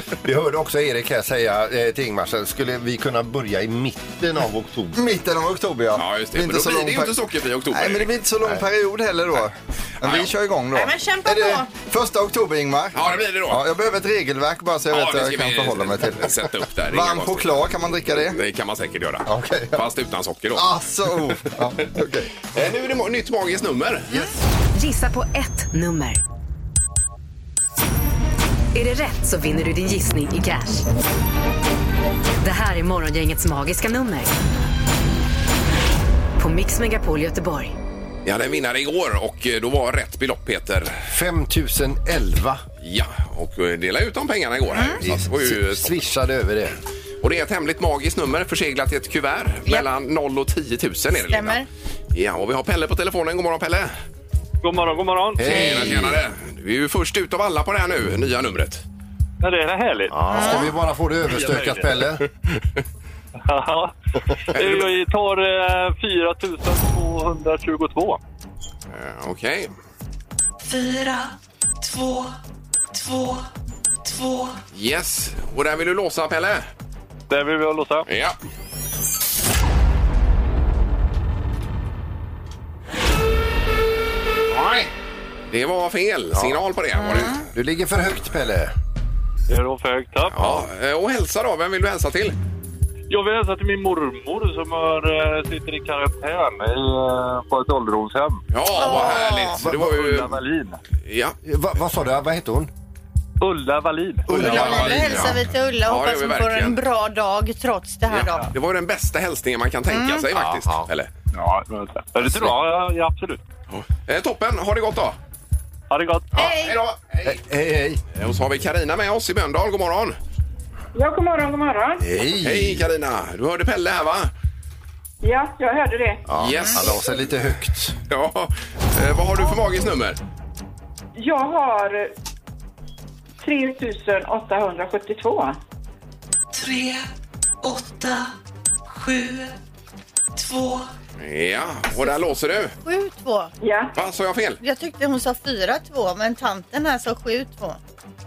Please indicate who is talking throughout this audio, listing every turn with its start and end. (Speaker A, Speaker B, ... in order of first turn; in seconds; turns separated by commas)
Speaker A: 0.2-5.0, Speaker B: 5.0-7.2, Speaker C: 5.9-8.2, Speaker B: 7.7-18.4, Speaker C: 10.0-10.3, Speaker D: 10.8-11.7, Speaker C: 12.9-13.7, Speaker C: 14.9-17.6, Speaker C: 18.1-21.3, Speaker B: 19.3-19.8, Speaker B: 20.6-22.3, Speaker C: 22.5-24.1, Speaker E: 24.8-26.2, Speaker E: 28.7-30.9, Speaker E: 32.4-34.4, Speaker E: 36.4-37.7, Speaker C: 38.2-41.0, Speaker A: 41.1-42.6, Speaker C: 42.8-46.0, Speaker D: 44.7-45.0, Speaker A: 45.0-46.8, Speaker C: 47.2-51.6, Speaker D: 51.2-51.7, Speaker C: 52.1-53.9, Speaker F: 54.6-55.6, Speaker A: 55.4-56.2, Speaker C: 55.4-58.8, Speaker F: 59.4-60.2, Speaker A: 60.1-62.2, Speaker D: 60.3-60.7, Speaker F: 61.3-62.1, Speaker F: 63.5-64.0, Speaker F: 64.5-68.2, Speaker C: 64.5-64.9, Speaker C: 68.9-69.7, Speaker G: 70.7-71.3, Speaker G: 71.8-72.3, Speaker G: 73.0-73.4, Speaker G: 74.0-74.5, Speaker C: 74.7-76.7, Speaker F: 77.3-78.1, Speaker C: 78.1-78.4, Speaker C: 84.5-84.9, Speaker C: 85.5-87.4, Speaker A: 86.3-88.7, Speaker D: 87.0-87.4, Speaker F: 89.5-90.6, Speaker C: 90.3-92.4, Speaker F: 93.1-98.4, Speaker C: 98.5-100.3, Speaker D: 98.7-99.6, Speaker A: 99.6-99.9, Speaker F: 99.7-100.8, Speaker C: 101.0-101.4, Speaker A: 101.4-102.7, Speaker F: 103.4-104.6, Speaker A: 104.3-105.4, Speaker C: 104.3-106.8, Speaker D: 104.3-108.5, Speaker C: 108.1-111.1, Speaker D: 109.9-110.3, Speaker A: 110.3-110.9, Speaker F: 111.3-113.4, Speaker C: 113.7-115.2, Speaker F: 115.9-116.5, Speaker D: 116.3-116.8, Speaker C: 116.4-117.4, Speaker A: 117.2-118.0, Speaker C: 118.2-120.2, Speaker H: 121.0-122.0, Speaker A: 122.0-122.9, Speaker C: 122.4-124.3, Speaker H: 125.2-126.3, Speaker A: 126.3-128.0, Speaker C: 126.4-127.0, Speaker C: 128.1-130.2, Speaker H: 131.2-132.1, Speaker H: 133.4-135.6, Speaker G: 136.5-137.0, Speaker G: 137.6-138.3, Speaker G: 139.0-139.5, Speaker G: 140.4-140.9, Speaker C: 141.2-142.7, Speaker D: 141.9-142.2, Speaker D: 142.8-143.5, Speaker H: 143.6-144.0, Speaker C: 143.9-144.6, Speaker D: 144.6-147.8